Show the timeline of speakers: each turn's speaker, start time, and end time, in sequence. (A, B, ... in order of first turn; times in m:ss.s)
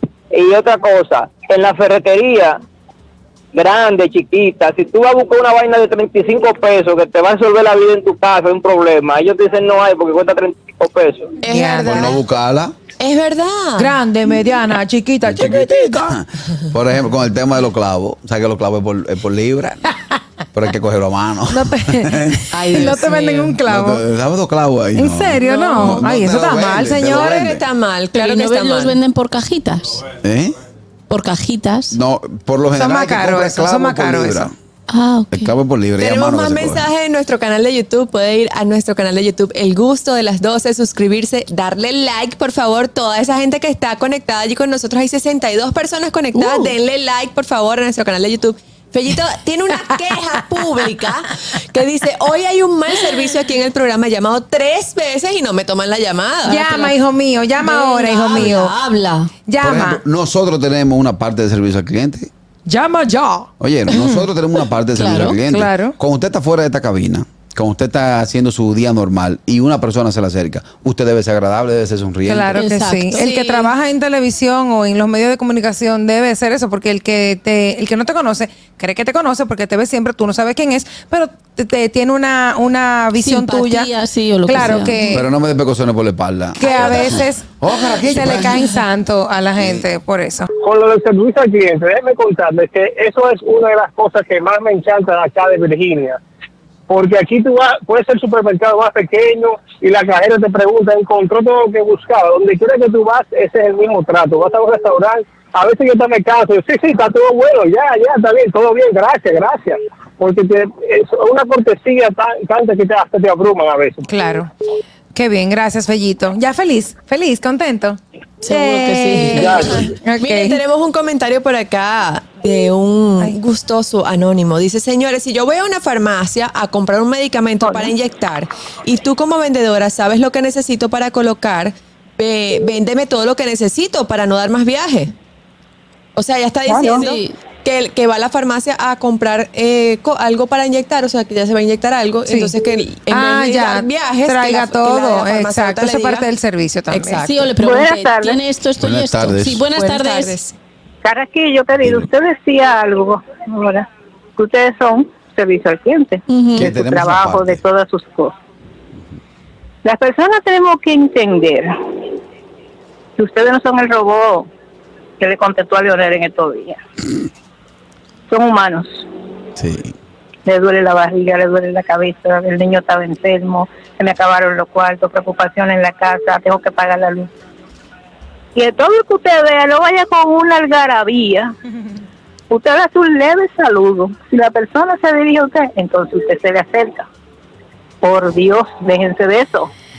0:00.3-0:02.6 A
0:03.5-0:11.4 A
0:11.4-0:12.1 B
0:11.4-0:12.2 C
0:11.8-0:12.8 D
0:13.0-0:13.9 B
0:13.8-0:16.2 C
0:15.3-0:19.8 D
0:20.5-0:23.1 D
0:21.5-0:24.0 C
0:22.5-0:23.5 B
0:23.6-0:27.6 D
0:25.0-0:27.3 C
0:25.5-0:26.0 B
0:27.1-0:29.0 B
0:28.1-0:30.0 E
0:30.2-0:30.6 D
0:31.1-0:32.0 E
0:31.9-0:34.5 D
0:32.7-0:34.5 C
0:34.9-0:35.5 E
0:35.3-0:36.9 D
0:36.1-0:56.6 B
0:46.4-0:46.8 E
0:56.4-0:58.7 C
0:57.6-0:59.3 E
0:59.5-1:00.0 C
0:59.6-1:02.3 D
1:02.7-1:04.2 C
1:03.6-1:12.6 D
1:05.0-1:05.4 E
1:05.5-1:06.0 C
1:12.3-1:23.9 C
1:12.6-1:13.3 E
1:13.2-1:13.6 B
1:23.2-1:25.1 E
1:24.4-1:25.3 C
1:25.1-1:28.6 D
1:26.6-1:27.5 C
1:28.0-1:30.5 C
1:29.6-1:29.8 D
1:30.6-1:36.2 F
1:36.9-1:54.1 F
1:54.1-1:54.5 C
1:55.1-2:00.6 C
1:58.4-1:59.9 E
2:00.2-2:15.1 B
2:07.6-2:07.9 G
2:16.2-2:26.3 B
2:16.7-2:17.0 G
2:17.0-2:17.4 E
2:22.3-2:22.6 C
2:23.1-2:27.3 C
2:26.9-2:27.5 B
2:27.2-2:30.4 E
2:27.6-2:28.4 G
2:28.8-2:29.7 D
2:29.8-2:30.6 B
2:31.0-2:38.4 G
2:31.8-2:32.1 D
2:36.3-2:36.7 E
2:36.6-2:37.6 D
2:39.8-2:41.7 G
2:43.2-2:44.5 G
2:45.2-2:46.8 G
2:48.3-2:49.1 G
2:49.6-2:49.9 D
2:50.4-2:57.3 G
2:58.6-3:01.5 G
3:02.5-3:07.1 G
3:08.0-3:09.7 G